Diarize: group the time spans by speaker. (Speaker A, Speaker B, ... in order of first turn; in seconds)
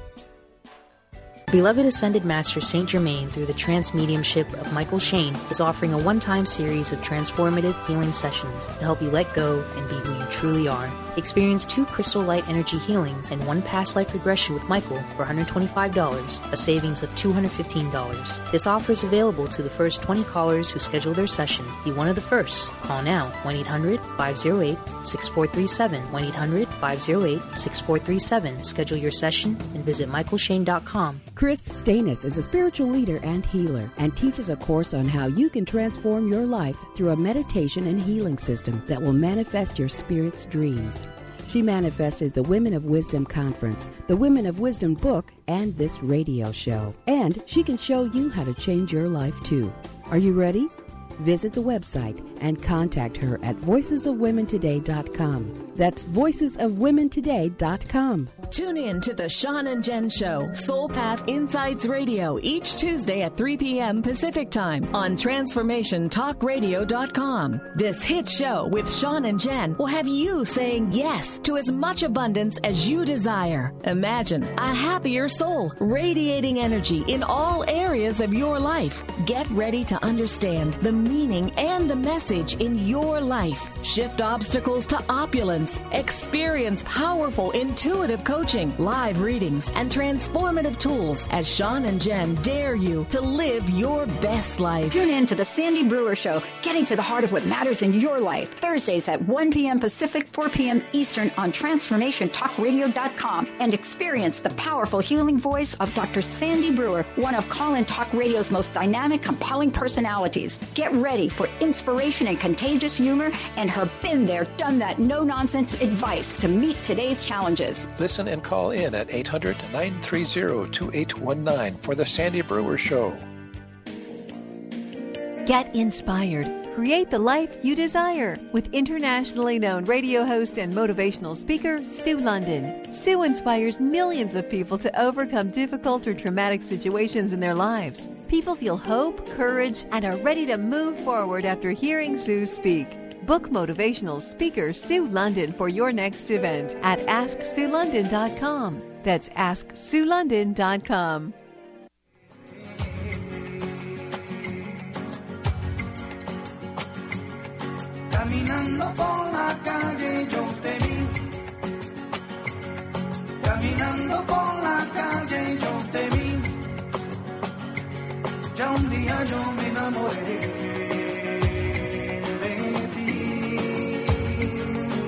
Speaker A: 1.5-31.2
Speaker B: 31.3-58.3
Speaker C: 58.5-95.0
Speaker D: 94.9-117.9
Speaker E: 118.0-123.3
Speaker F: 125.5-151.3
Speaker G: 158.1-161.2, 163.4-166.6, 168.5-171.2, 172.3-174.2